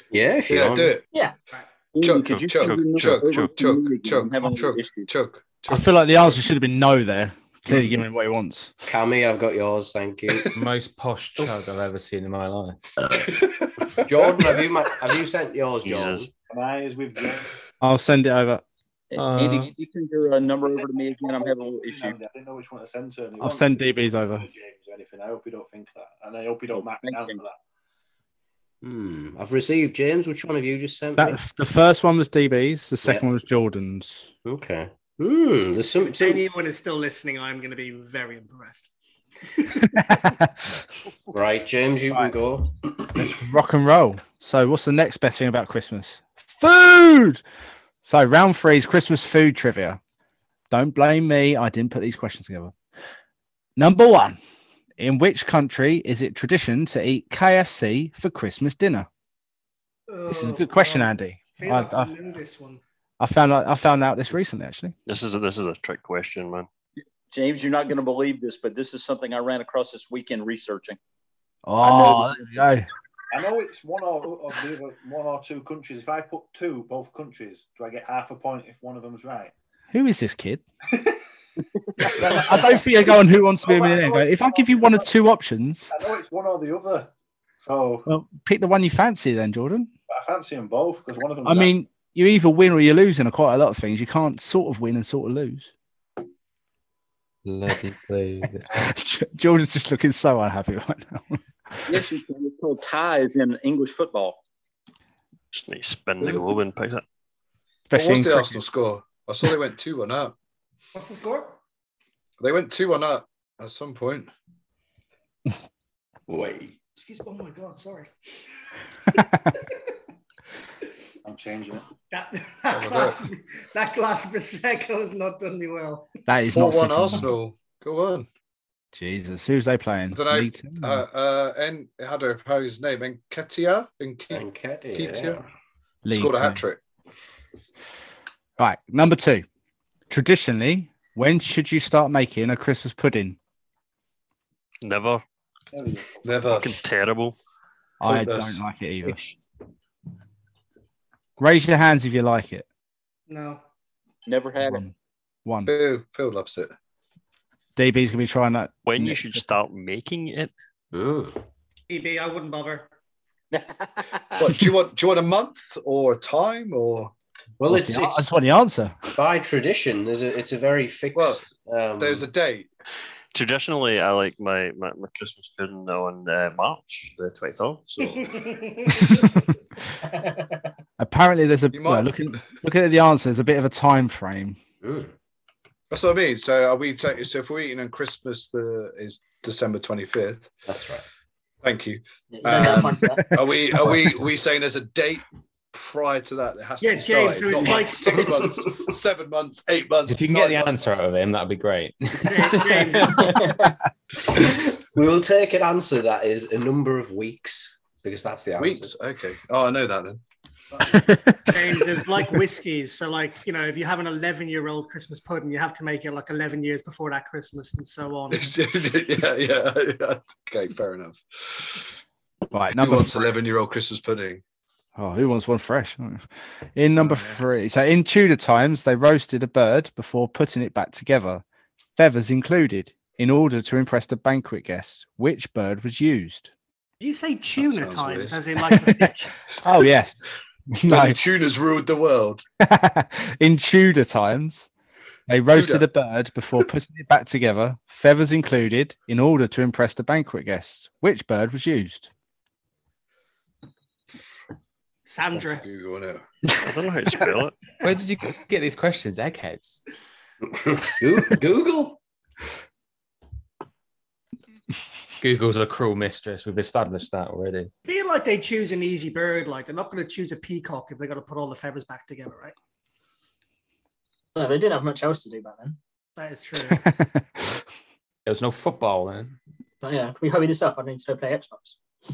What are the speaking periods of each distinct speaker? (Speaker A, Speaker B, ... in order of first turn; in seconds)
Speaker A: 0.1-1.0, 8.9-10.5, 14.0-16.3, 28.8-31.4, 34.5-36.4, 41.3-43.1, 134.3-135.5, 160.9-161.4, 167.6-168.3, 169.2-172.3, 184.8-185.1, 190.7-191.1, 204.3-208.9, 260.4-262.0
Speaker B: 0.5-1.0, 2.0-6.4, 13.3-14.6, 107.9-110.3, 112.4-114.3, 122.7-123.2, 126.5-128.3, 130.1-135.4, 136.1-136.8, 146.2-146.7, 148.0-148.6, 155.7-156.7, 164.4-167.1, 171.2-171.5, 172.0-172.7, 181.7-182.6, 185.9-190.5, 191.6-201.0, 208.6-210.2, 218.3-222.0, 222.7-224.4, 227.0-227.3, 237.6-238.4, 240.8-242.4, 245.5-245.9, 255.4-256.2
Speaker C: 1.9-5.1, 19.1-22.2, 27.0-27.4, 67.3-71.0, 101.9-104.4, 154.3-154.9, 163.5-164.5
Speaker D: 2.3-3.5, 15.8-16.3, 65.1-66.7, 105.5-107.0, 144.8-145.2, 146.5-147.4, 158.9-160.5, 173.3-178.6, 256.6-257.6
Speaker E: 5.7-8.7, 17.8-18.6, 23.4-24.5, 31.2-34.3, 39.8-40.5, 43.1-47.4, 48.0-50.0, 50.7-52.7, 53.8-54.4, 55.0-59.1, 60.3-62.1, 63.2-64.9, 71.7-72.9, 79.9-80.6, 82.0-85.9, 88.1-89.9, 91.4-95.7, 98.7-102.0, 107.9-108.6, 126.3-127.3, 128.9-131.0, 136.1-136.6, 138.6-139.5, 140.1-143.4, 148.0-149.2, 151.4-152.7, 154.7-154.9, 155.5-155.7, 157.8-159.4, 167.7-169.1, 181.0-184.6, 222.5-223.3, 225.0-231.4, 232.0-236.5, 238.8-239.1, 239.6-240.2, 240.7-241.2, 242.6-244.7, 245.3-252.1, 276.6-277.5
Speaker F: 10.5-12.8, 19.1-19.7, 97.5-98.8, 200.1-203.7, 257.8-259.8, 265.2-267.7, 278.3-279.4
Speaker G: 16.5-17.5, 20.6-27.6, 71.9-72.4, 73.3-79.5, 82.0-85.1, 85.9-88.1, 90.1-91.7, 116.3-116.8, 121.2-121.9, 145.7-146.4
Speaker H: 36.2-38.9, 39.5-39.8, 60.1-62.8, 110.9-111.6, 117.0-118.1, 122.1-126.1, 153.3-153.6, 161.9-162.9, 178.4-179.0, 196.8-198.4, 202.2-203.4, 211.5-218.6, 237.0-239.4, 255.1-255.7, 267.9-272.6, 276.2-276.8
Speaker I: 180.1-180.5, 192.3-193.8, 203.2-203.7, 274.4-275.8, 279.8-281.8